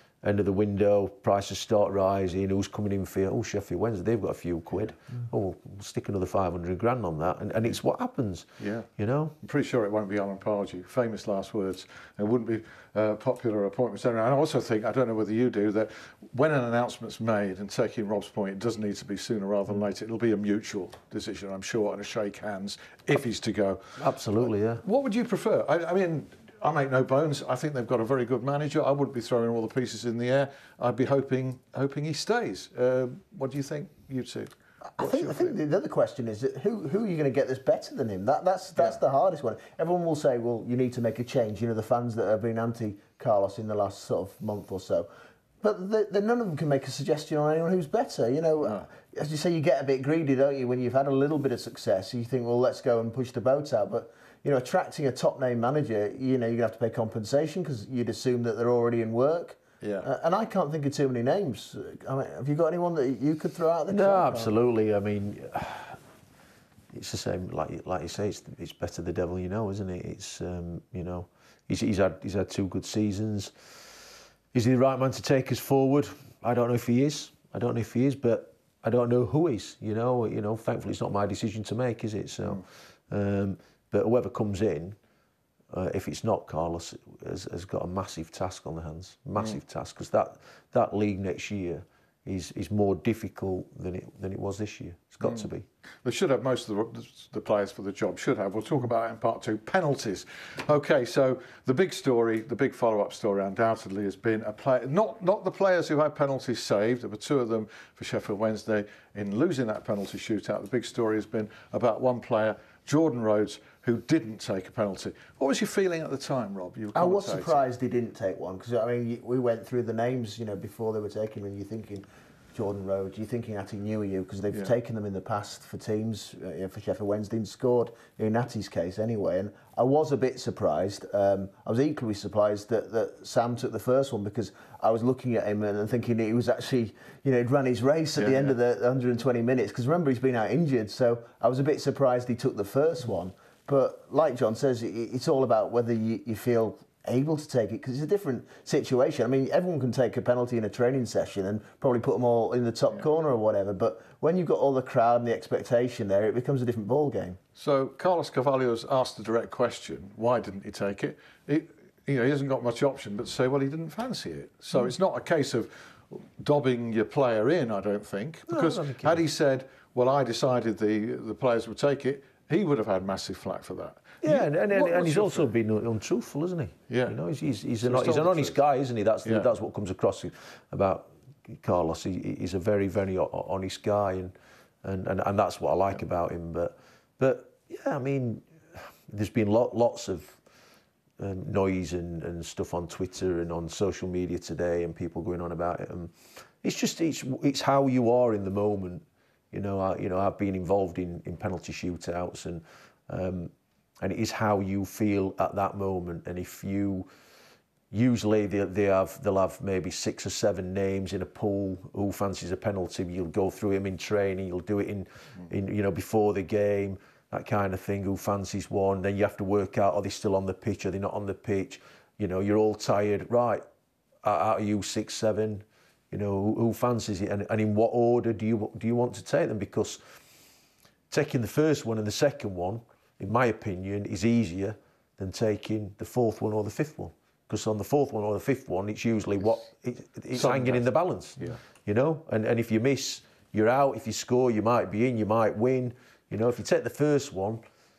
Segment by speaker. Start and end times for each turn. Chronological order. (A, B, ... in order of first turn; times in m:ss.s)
0:00.2-0:09.4 A
0:08.6-0:08.9 B
0:09.4-0:35.5 B
0:24.0-0:24.8 A
0:34.9-0:45.1 C
0:45.6-1:04.5 C
0:59.8-1:00.1 B
1:03.9-1:06.0 A
1:06.9-1:13.7 A
1:14.5-1:25.0 A
1:25.7-1:35.6 A
1:36.0-1:57.6 B
1:56.9-2:37.4 C
2:18.2-2:18.5 B
2:37.6-2:55.5 B
2:48.5-2:49.2 A
2:54.2-3:10.4 A
2:56.9-2:57.2 B
2:57.8-2:58.6 B
2:59.2-2:59.5 B
3:11.2-3:27.1 A
3:27.9-3:43.6 A
3:44.2-3:50.2 A
3:51.1-4:07.6 A
4:00.3-4:01.6 B